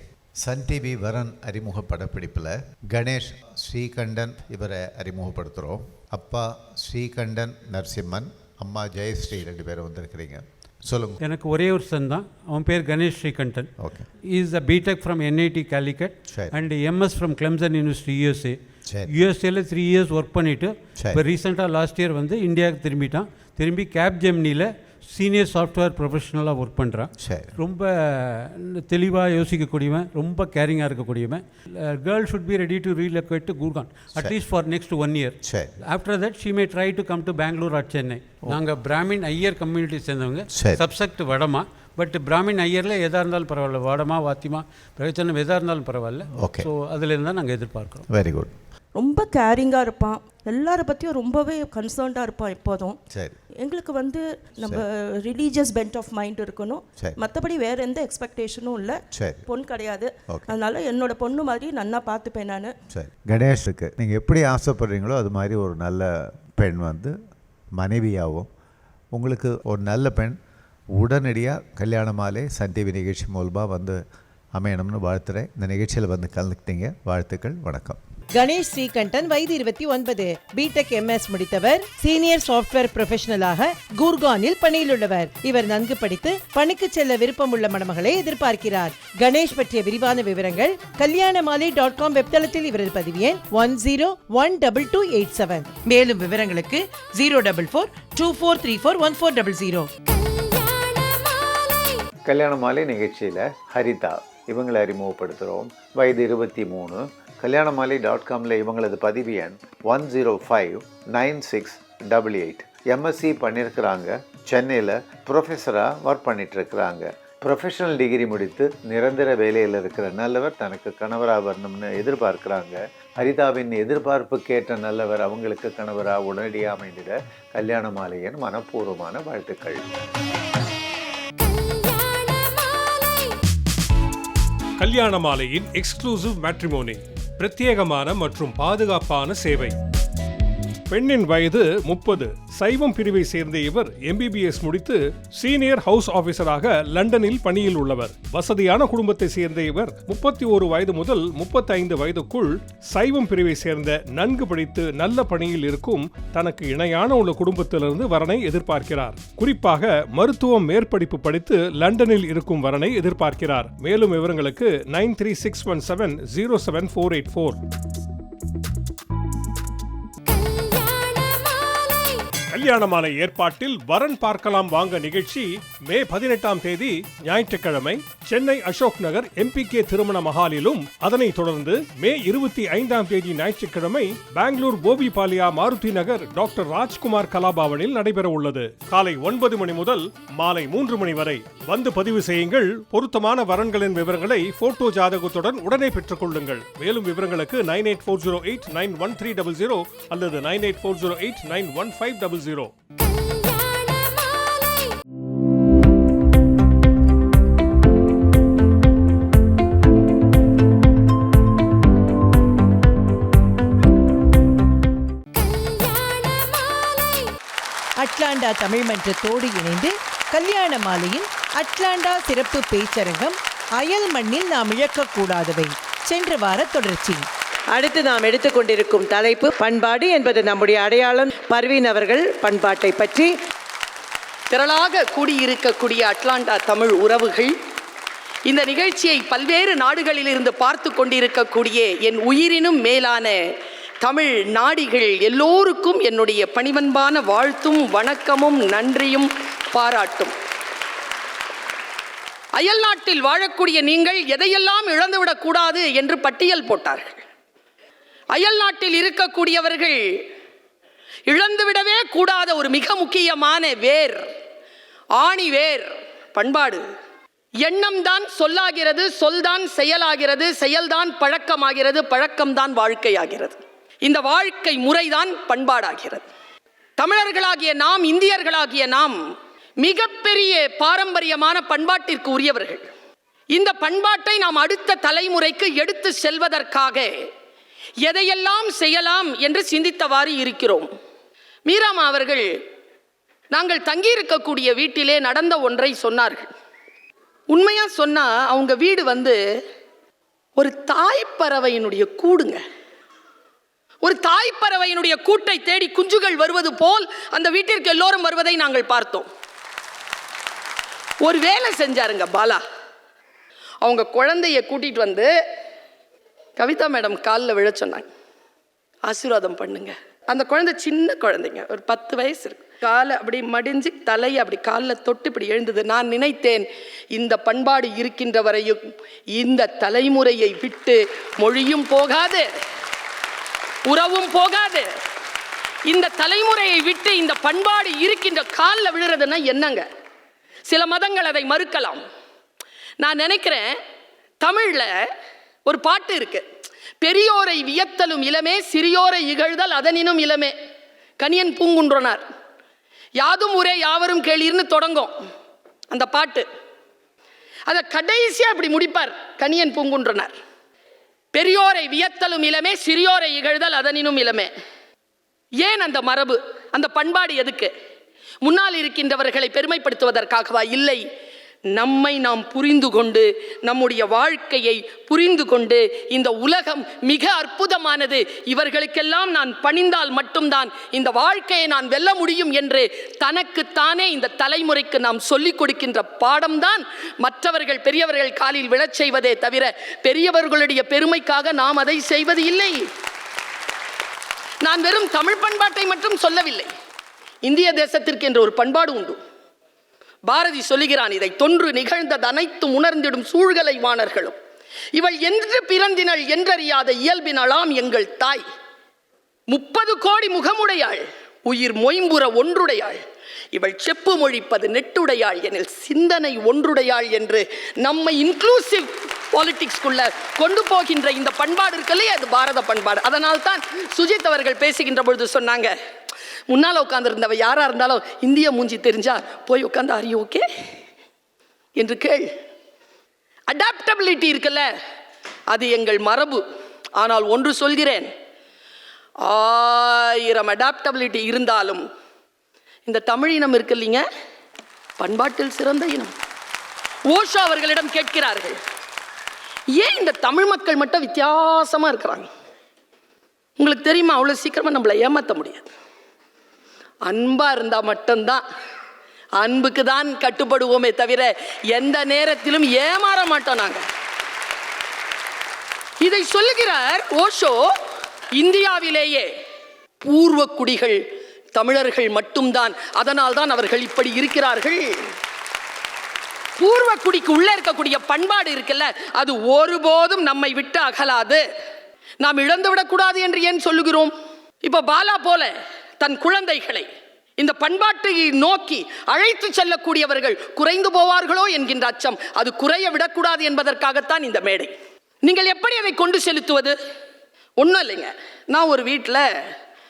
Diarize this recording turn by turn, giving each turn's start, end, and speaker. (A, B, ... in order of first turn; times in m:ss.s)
0:00.4-0:11.2 A
0:11.2-0:13.7 B
0:13.8-0:14.1 A
0:14.3-0:48.0 B
0:16.3-0:16.6 A
0:27.2-0:27.5 A
0:35.4-0:35.7 A
0:40.5-0:40.8 A
0:46.4-0:46.7 A
0:48.1-0:48.5 A
0:48.9-0:53.0 C
0:53.1-0:53.4 A
0:53.6-1:02.7 C
0:59.1-0:59.4 A
1:00.3-1:00.5 A
1:02.9-1:07.1 A
1:07.8-1:08.5 A
1:09.1-1:10.4 A
1:11.0-1:14.0 A
1:14.5-1:18.0 A
1:18.3-1:39.9 D
1:40.0-1:42.0 E
1:42.2-2:09.8 A
2:11.4-2:13.4 E
2:14.8-2:19.8 F
2:20.9-2:47.6 F
2:50.3-2:52.2 E
2:52.5-3:22.7 F
3:23.0-3:25.0 E
3:35.3-3:37.3 E
3:38.0-3:53.3 D
3:54.5-3:57.5 G
3:58.5-4:03.4 G
4:04.0-4:10.3 G
4:12.6-4:17.2 G
4:18.3-4:20.2 G
4:21.3-4:24.3 G
4:25.2-4:26.8 G
4:27.6-4:36.2 G
4:37.0-4:39.2 G
4:39.8-4:42.8 G
4:43.5-4:47.1 G
4:48.0-4:50.9 G
4:51.6-4:52.5 G
4:53.5-4:56.5 G
4:57.5-4:59.4 G
5:00.6-5:02.6 G
5:04.0-5:09.3 G
5:11.2-5:12.6 G
5:13.8-5:15.3 G
5:16.6-5:18.1 G
5:19.1-5:28.8 G
5:29.4-5:32.4 G
5:33.9-5:34.9 G
5:35.9-5:39.8 G
5:40.7-5:42.0 G
5:43.0-5:43.7 G
5:44.4-5:44.9 G
5:45.6-5:46.4 G
5:47.0-5:50.5 G
5:51.2-5:52.2 G
5:53.2-5:55.1 G
5:55.9-5:56.4 G
5:57.7-6:00.3 G
6:01.3-6:04.5 G
6:05.6-6:07.7 G
6:08.4-6:11.0 G
6:11.7-6:32.8 G
6:34.6-6:36.7 G
6:37.4-6:39.2 G
6:40.3-6:44.4 G
6:44.9-6:48.4 G
6:49.5-6:53.0 G
6:53.5-7:05.7 G
7:06.5-7:10.4 G
7:11.8-7:12.3 G
7:13.5-7:14.6 G
7:15.5-7:16.4 G
7:17.0-7:18.1 G
7:19.2-7:21.8 G
7:22.8-7:24.0 G
7:25.0-7:26.1 G
7:27.1-7:28.6 G
7:29.8-7:32.3 G
7:33.6-7:35.7 G
7:37.1-7:38.4 G
7:39.4-7:43.8 G
7:46.0-7:47.6 G
7:48.4-7:49.3 G
7:50.0-7:51.0 G
7:51.5-7:55.1 G
7:56.6-8:01.4 G
8:02.2-8:06.9 G
8:07.4-8:14.7 G
8:15.2-8:16.8 G
8:17.6-8:19.2 G